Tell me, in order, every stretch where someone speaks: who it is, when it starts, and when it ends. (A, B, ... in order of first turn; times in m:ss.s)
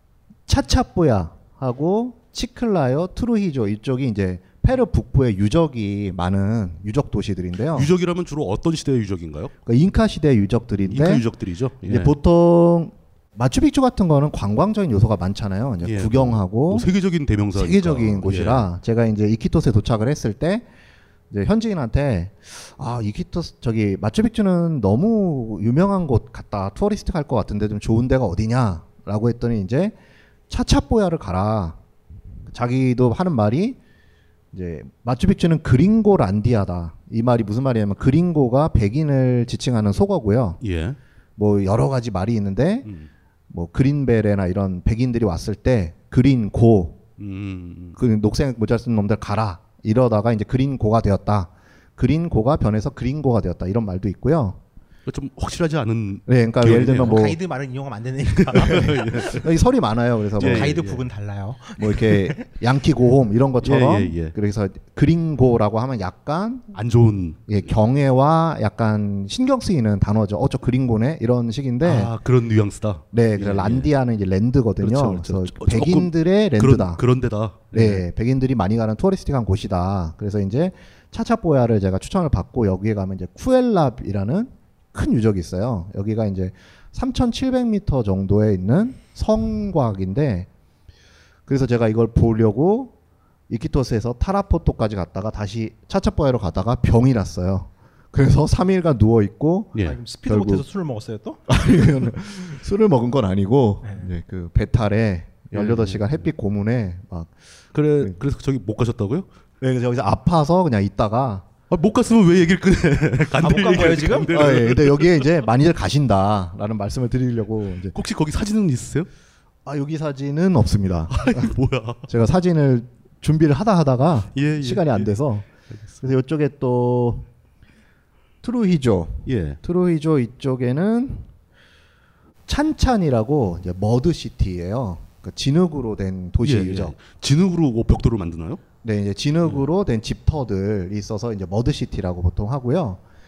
0:00.4-0:07.9 A
0:07.7-0:09.5 B
0:09.6-0:11.2 A
0:10.8-0:12.1 B
0:11.9-0:16.9 A
0:15.8-0:18.7 B
0:17.5-0:20.6 A
0:21.3-0:30.0 A
0:30.5-0:31.8 A
0:32.5-0:33.8 A
0:34.5-0:40.6 A
0:40.6-0:41.0 B
0:41.4-0:42.9 A
0:43.5-0:47.0 A
0:47.2-0:48.0 B
0:48.0-0:54.6 A
0:55.0-0:57.3 B
0:56.3-0:57.4 A
0:57.0-0:59.0 C
0:58.4-0:59.4 B
0:58.6-1:00.8 A
1:00.4-1:01.0 B
1:00.4-1:02.5 C
1:01.8-1:06.8 A
1:03.6-1:04.3 B
1:06.7-1:07.6 B
1:07.5-1:12.1 A
1:11.8-1:13.9 B
1:13.1-1:17.0 A
1:14.8-1:18.0 B
1:17.7-1:30.5 A
1:31.5-1:32.9 A
1:33.5-1:40.6 A
1:39.8-1:41.4 C
1:41.5-1:47.3 A
1:43.8-1:44.1 C
1:45.5-1:46.2 B
1:47.7-1:49.3 B
1:49.6-1:51.4 A
1:51.7-1:55.3 B
1:53.4-1:54.3 C
1:54.3-1:57.9 A
1:57.9-1:59.1 B
1:59.6-2:01.5 A
2:01.1-2:02.0 B
2:02.1-2:05.5 A
2:04.3-2:05.1 B
2:06.0-2:07.3 A
2:08.4-2:11.3 A
2:09.2-2:09.6 B
2:12.5-2:16.9 A
2:16.4-2:18.6 B
2:18.8-2:23.0 A